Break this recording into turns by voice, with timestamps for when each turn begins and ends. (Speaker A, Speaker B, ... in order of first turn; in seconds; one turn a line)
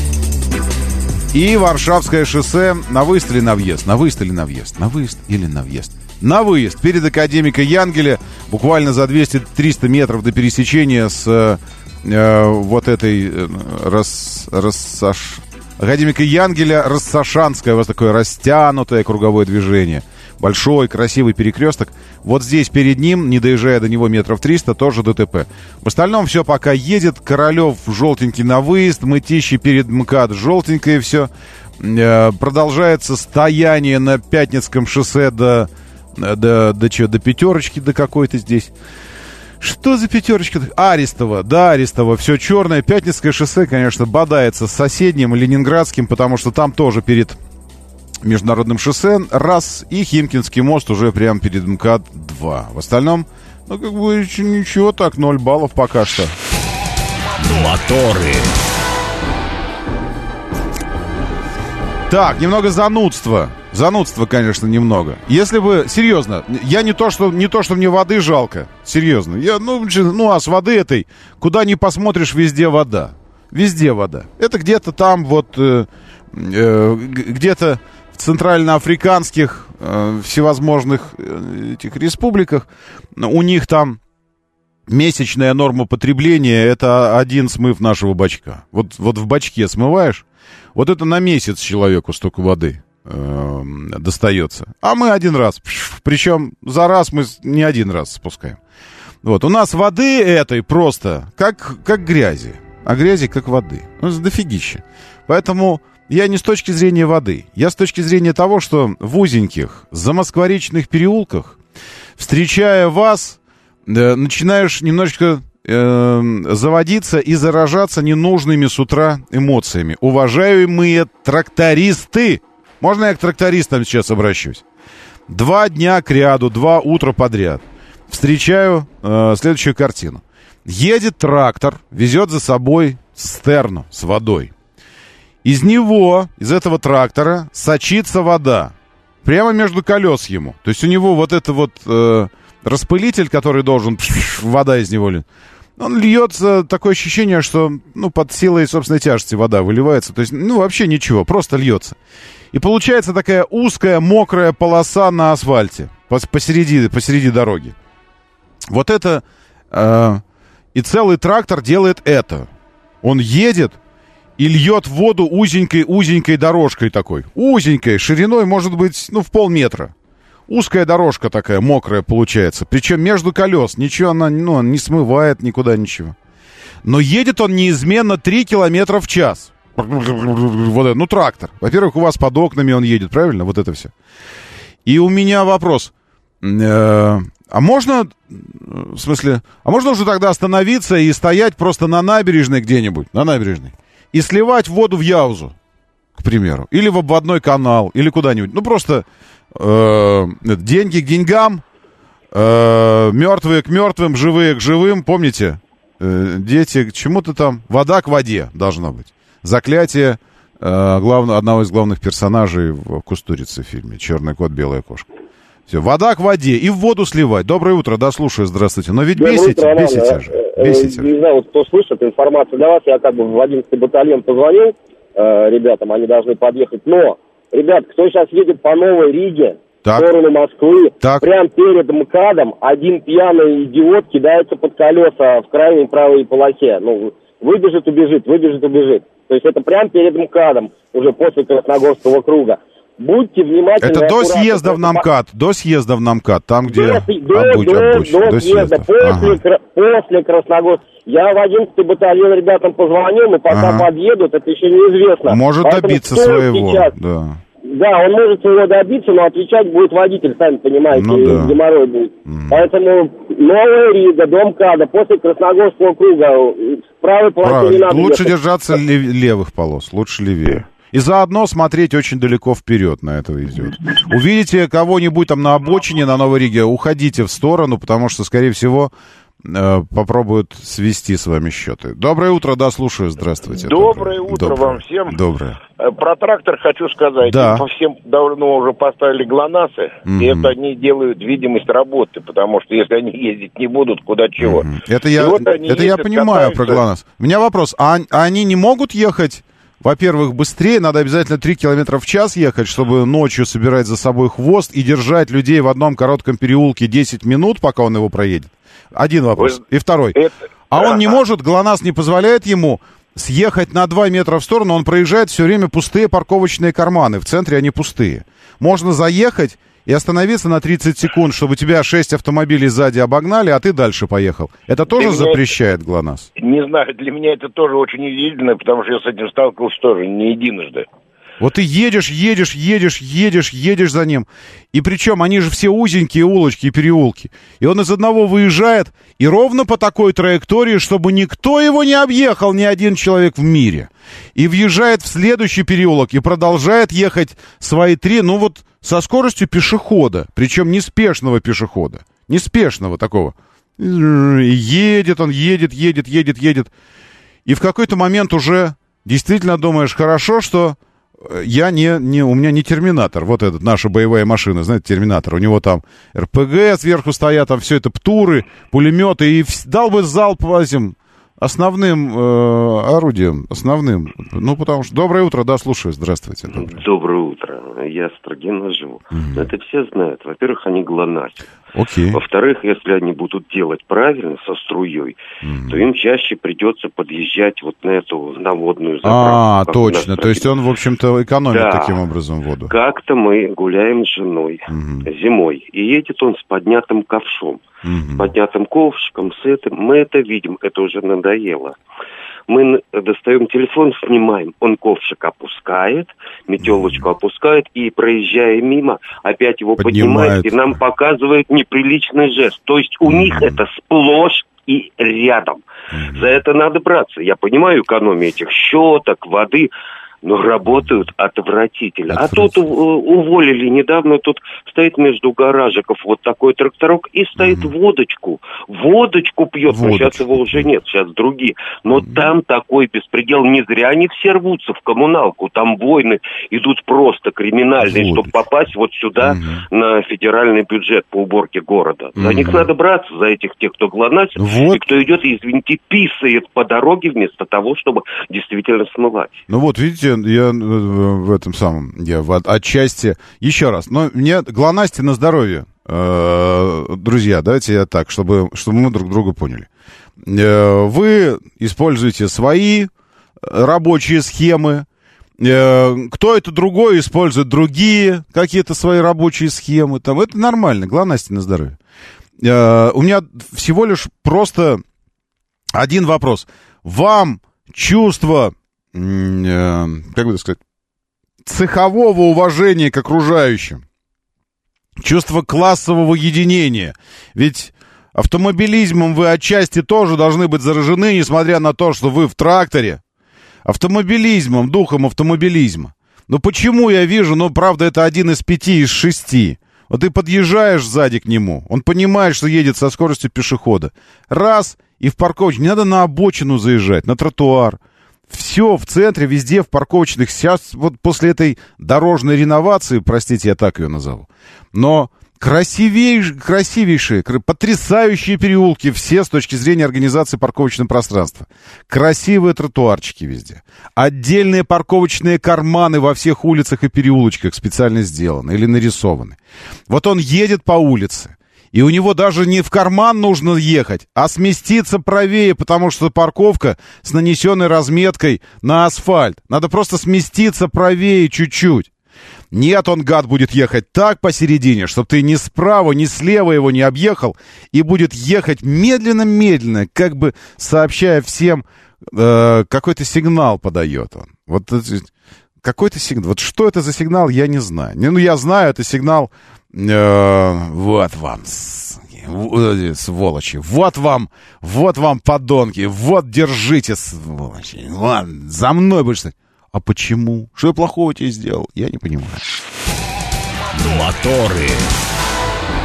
Speaker A: 1.3-38.7
Speaker A: 39.6-47.4
Speaker A: 48.2-56.4
Speaker B: 57.4-58.5
Speaker A: 62.1-84.0
Speaker A: 84.9-98.6
Speaker A: 99.2-111.6
Speaker A: 112.2-124.6
Speaker A: 125.3-134.5
Speaker A: 135.4-138.7
Speaker A: 139.2-145.2
Speaker A: 145.8-152.0
Speaker A: 152.5-157.8
Speaker A: 158.7-160.2
Speaker A: 160.7-162.5
Speaker A: 163.0-163.8
Speaker A: 164.4-169.9
Speaker A: 170.5-176.2
Speaker A: 176.8-183.9
Speaker A: 184.9-195.5
Speaker A: 196.2-201.6
Speaker A: 202.3-215.1
Speaker A: 215.7-221.1
Speaker C: 219.2-245.1
Speaker A: 231.0-231.3
Speaker A: 243.8-249.4
Speaker C: 246.7-256.9
Speaker A: 253.5-253.9
Speaker A: 255.3-257.4
Speaker C: 257.7-268.3
Speaker A: 260.9-261.6
Speaker A: 262.3-262.7
Speaker A: 267.4-278.9
Speaker A: 279.4-285.6
Speaker D: 283.5-285.2
Speaker D: 285.8-296.8
Speaker A: 287.2-287.6
Speaker A: 290.1-290.5
Speaker A: 294.4-310.2
Speaker D: 310.1-311.2
Speaker A: 310.7-326.3
Speaker D: 324.9-325.5
Speaker D: 326.4-330.9
Speaker A: 331.4-356.7
Speaker A: 357.5-376.8
Speaker E: 376.5-381.5
Speaker A: 379.1-379.5
Speaker A: 381.7-382.2
Speaker E: 382.1-390.5
Speaker A: 385.4-385.8
Speaker A: 389.0-392.7
Speaker E: 391.5-392.0
Speaker E: 392.7-397.6
Speaker A: 394.7-395.1
Speaker A: 397.8-398.3
Speaker E: 398.2-401.8
Speaker E: 402.5-419.7
Speaker A: 406.6-407.1
Speaker A: 409.8-410.8
Speaker A: 413.0-413.6
Speaker A: 415.9-416.3
Speaker E: 420.2-449.4
Speaker A: 422.1-422.7
Speaker A: 427.4-427.7
Speaker A: 429.7-430.7
Speaker A: 432.0-432.2
Speaker A: 437.8-438.4
Speaker A: 439.2-439.6
Speaker A: 442.2-442.7
Speaker A: 444.4-444.8
Speaker A: 449.5-459.7
Speaker A: 460.2-462.9
Speaker A: 463.4-464.9
Speaker A: 465.4-471.8
Speaker A: 472.4-474.8
Speaker A: 475.7-480.6
Speaker A: 481.4-483.8
Speaker A: 485.0-493.0
Speaker A: 493.6-529.4
Speaker A: 529.9-541.9
Speaker A: 542.5-555.1
Speaker A: 555.6-572.5
Speaker B: 573.8-574.9